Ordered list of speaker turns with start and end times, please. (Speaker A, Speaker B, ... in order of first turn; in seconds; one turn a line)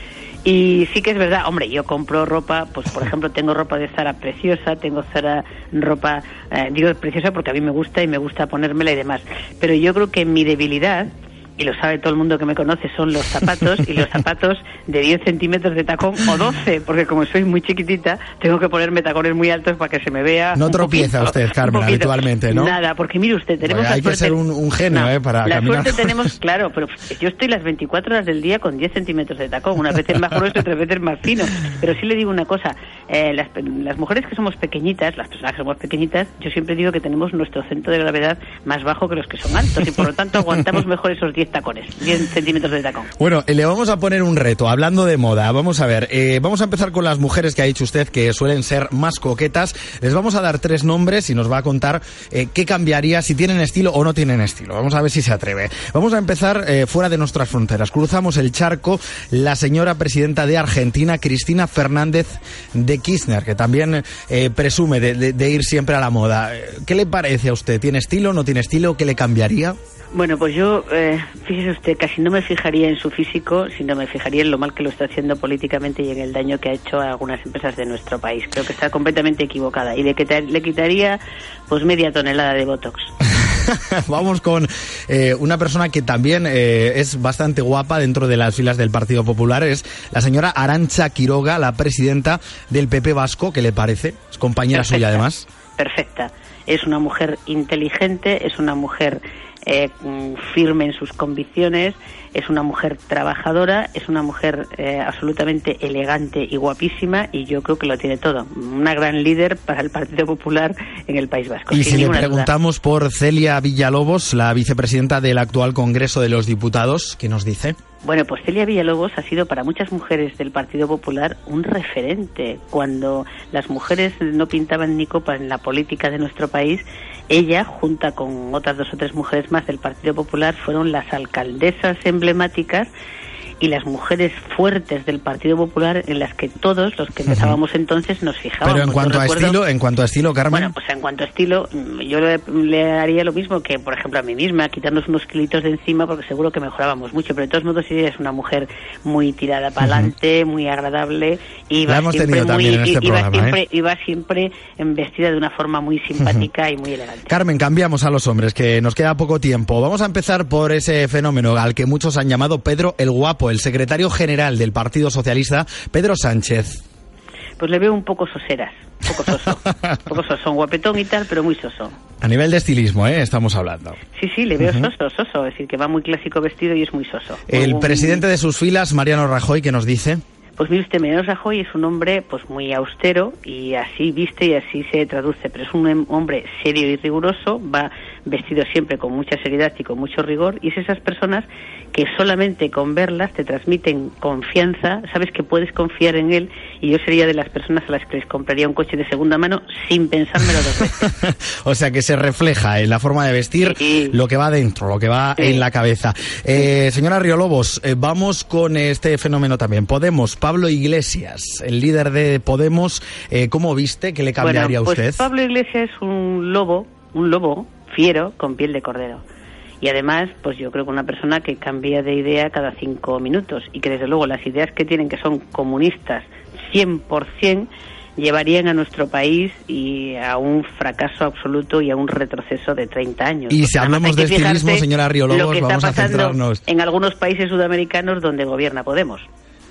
Speaker A: 0.4-43.1
Speaker B: 20.6-22.8
Speaker B: 23.6-26.4
Speaker B: 43.2-69.8
Speaker A: 70.1-83.1
Speaker B: 83.4-95.5
Speaker A: 94.7-95.2
Speaker A: 95.8-112.5
Speaker B: 111.7-117.8
Speaker A: 118.0-132.9
Speaker A: 133.6-139.6
Speaker B: 137.3-137.6
Speaker B: 138.6-140.7
Speaker A: 140.5-157.3
Speaker B: 149.8-150.1
Speaker B: 151.9-153.6
Speaker B: 156.2-156.5
Speaker B: 157.3-166.8
Speaker A: 167.6-171.9
Speaker B: 169.5-170.0
Speaker B: 172.2-174.0
Speaker A: 174.2-178.2
Speaker B: 174.6-174.9
Speaker B: 177.5-180.2
Speaker A: 180.6-200.9
Speaker B: 201.0-215.3
Speaker A: 203.6-204.1
Speaker A: 205.4-205.6
Speaker A: 214.4-219.2
Speaker A: 219.8-239.3
Speaker B: 233.5-236.6